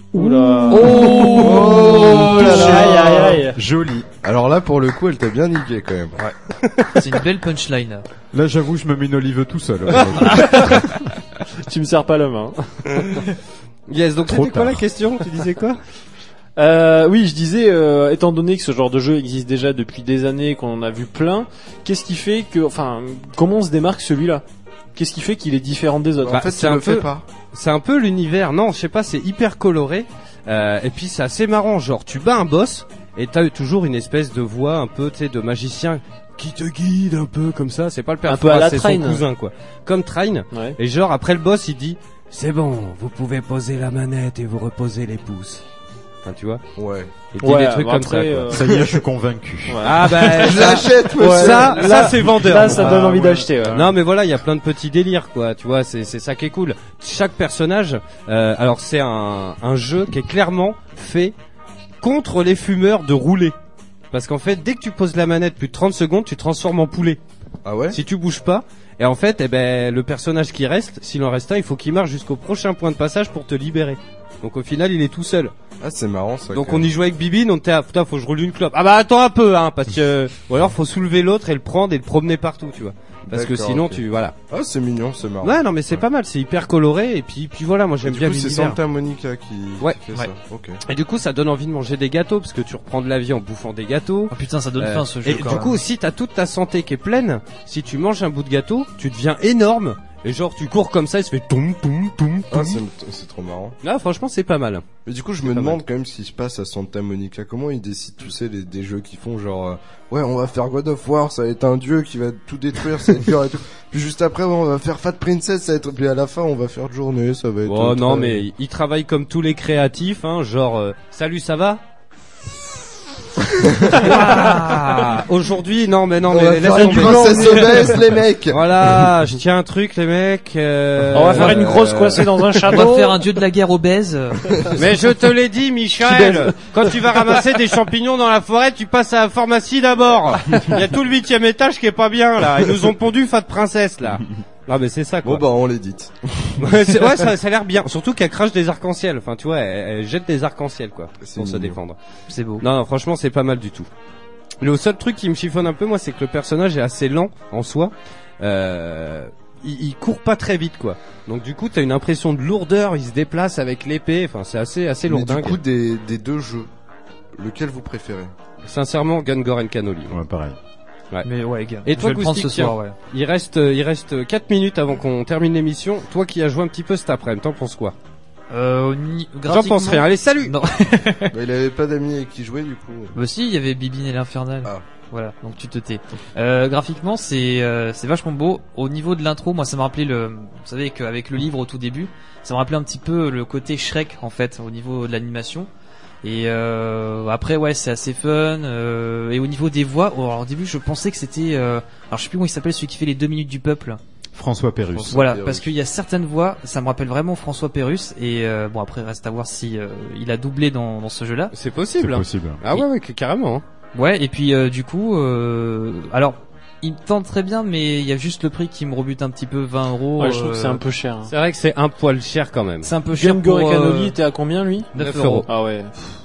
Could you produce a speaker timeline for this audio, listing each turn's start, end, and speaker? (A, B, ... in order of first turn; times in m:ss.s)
0:00.1-0:03.6 A
0:00.2-0:02.6 B
0:01.1-0:03.2 C
0:01.7-0:04.1 D
0:04.2-0:06.2 C
0:06.6-0:06.9 E
0:06.9-0:08.0 B
0:08.3-0:11.0 D
0:09.9-0:10.7 E
0:10.3-0:10.9 A
0:11.6-0:13.2 A
0:13.9-0:15.8 E
0:14.2-0:14.9 D
0:16.6-0:24.4 A
0:25.0-0:26.4 A
0:26.2-0:27.2 C
0:26.3-0:45.6 E
0:38.3-0:39.2 A
0:46.2-0:46.6 E
0:46.8-0:47.1 C
0:47.3-0:48.5 E
0:47.4-0:48.9 A
0:48.5-0:50.0 D
0:49.7-0:53.9 A
0:49.8-0:53.1 E
0:50.2-0:52.3 C
0:52.7-0:53.5 D
0:53.7-1:01.3 E
1:02.0-1:03.6 E
1:04.1-1:07.2 E
1:07.6-1:08.0 C
1:07.9-1:15.5 E
1:15.8-1:16.9 C
1:16.5-1:24.4 E
1:23.3-1:26.0 C
1:25.4-1:28.8 E
1:28.0-1:30.8 C
1:30.8-1:42.8 E
1:34.3-1:35.8 B
1:42.5-1:43.8 C
1:43.8-1:44.9 E
1:45.1-1:58.4 C
1:45.4-1:45.8 E
1:57.7-2:01.8 E
2:03.6-2:04.1 C
2:04.0-2:07.9 E
2:04.0-2:05.2 B
2:06.2-2:09.1 C
2:06.7-2:08.0 A
2:08.5-2:12.8 E
2:11.1-2:13.3 A
2:11.5-2:12.1 C
2:12.7-2:14.7 B
2:14.8-2:25.4 E
2:25.2-2:27.0 C
2:26.6-2:32.0 E
2:31.2-2:31.8 C
2:32.3-2:32.6 B
2:32.6-2:33.9 E
2:34.6-2:45.6 E
2:45.1-2:46.7 C
2:47.3-2:48.3 C
2:48.6-2:50.2 E
2:50.1-2:50.6 D
2:51.2-2:53.0 B
2:51.8-2:58.0 E
2:58.5-3:01.3 B
2:59.5-3:00.6 E
3:01.3-3:03.1 C
3:03.1-3:15.7 B
3:16.2-3:24.0 B
3:24.4-3:25.2 D
3:24.9-3:25.7 C
3:25.1-3:31.5 B
3:31.5-3:33.6 E
3:32.0-3:32.6 D
3:34.0-3:40.8 B
3:40.2-3:41.3 A
3:41.3-3:42.9 E
3:42.8-3:44.2 B
3:43.2-3:44.9 A
3:44.9-3:45.5 B
3:45.0-3:45.5 E
3:45.5-3:45.9 A